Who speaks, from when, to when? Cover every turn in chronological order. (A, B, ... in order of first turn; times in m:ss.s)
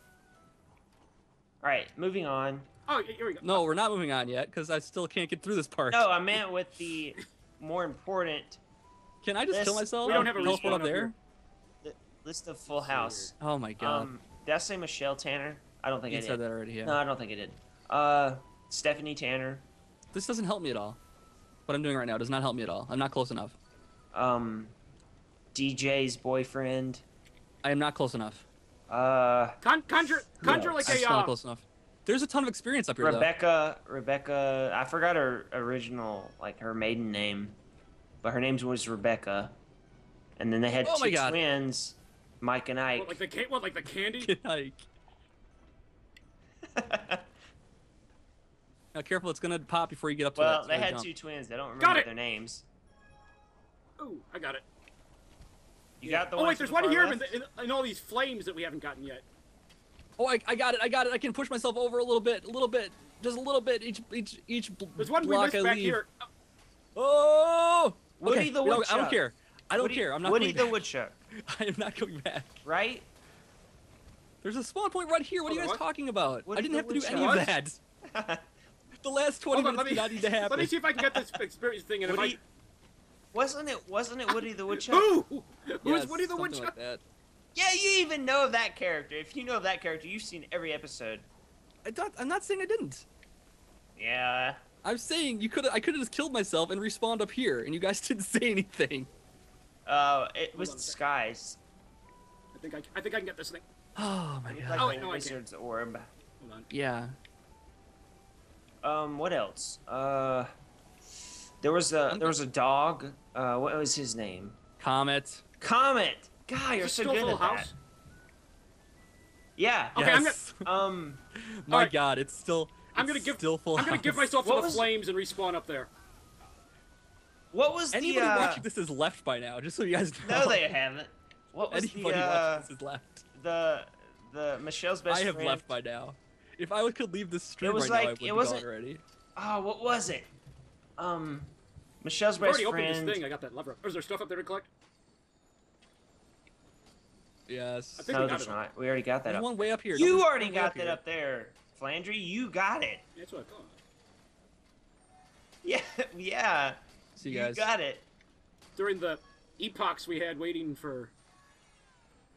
0:01.6-0:02.7 A
0:02.9-0:03.7 B
0:03.4-0:06.1 C
0:05.9-0:08.6 A
0:09.2-0:11.1 C
0:09.5-0:10.8 A
0:10.0-0:11.1 B
0:11.8-0:19.7 A
0:12.7-0:13.3 B
0:13.4-0:14.1 C
0:16.1-0:17.0 C
0:20.1-0:21.0 C
0:21.7-0:23.6 C
0:24.1-0:24.7 A
0:25.5-0:27.0 A
0:27.6-0:28.4 C
0:28.9-0:29.6 A
0:29.6-0:31.3 B
0:30.4-0:31.0 A
0:30.6-0:33.3 C
0:33.0-0:37.6 A
0:38.2-0:39.5 A
0:40.4-0:43.2 A
0:40.8-0:41.4 C
0:43.0-0:44.3 B
0:44.2-0:44.8 C
0:46.8-0:47.2 A
0:48.9-0:51.1 C
0:50.3-0:52.6 A
0:51.8-0:52.1 B
0:54.0-0:54.6 B
0:56.0-0:57.3 A
0:56.0-0:59.2 B
1:00.2-1:06.0 C
1:05.0-1:06.1 B
1:07.0-1:10.8 C
1:08.2-1:09.2 A
1:09.7-1:11.1 A
1:11.4-1:12.6 C
1:12.6-1:13.1 A
1:14.4-1:17.8 C
1:15.4-1:15.8 B
1:16.4-1:17.4 A
1:17.0-1:17.5 B
1:18.1-1:18.4 A
1:19.0-1:20.7 C
1:19.5-1:22.4 B
1:20.5-1:21.3 A
1:22.0-1:22.4 A
1:23.3-1:25.1 A
1:24.7-1:26.7 B
1:25.8-1:27.0 C
1:27.5-1:31.2 A
1:31.8-1:33.0 C
1:34.0-1:34.6 A
1:34.8-1:39.1 C
1:39.8-1:41.6 A
1:40.5-1:41.0 B
1:42.5-1:43.6 B
1:44.0-1:44.9 C
1:44.5-1:46.1 A
1:44.8-1:45.4 B
1:46.4-1:46.7 B
1:46.7-1:47.1 C
1:48.8-1:50.5 A
1:51.6-1:54.6 A
1:52.1-1:52.3 C
1:54.8-1:55.4 C
1:55.6-1:57.7 A
1:56.8-1:57.7 B
1:59.6-2:00.0 A
1:59.9-2:00.4 B
1:59.9-2:00.6 C
2:00.6-2:01.2 A
2:01.4-2:04.3 C
2:02.9-2:05.9 B
2:04.4-2:04.9 A
2:07.5-2:08.6 A
2:07.9-2:10.6 C
2:10.2-2:12.7 A
2:11.7-2:13.2 C
2:13.3-2:15.7 A
2:15.1-2:19.0 C
2:17.6-2:18.6 A
2:19.4-2:20.3 A
2:21.0-2:23.2 A
2:22.4-2:24.7 B
2:27.5-2:28.1 C
2:28.0-2:28.6 B
2:28.1-2:33.0 A
2:29.3-2:31.0 C
2:33.2-2:33.8 B
2:35.6-2:38.1 A
2:37.2-2:37.7 C
2:38.8-2:41.1 B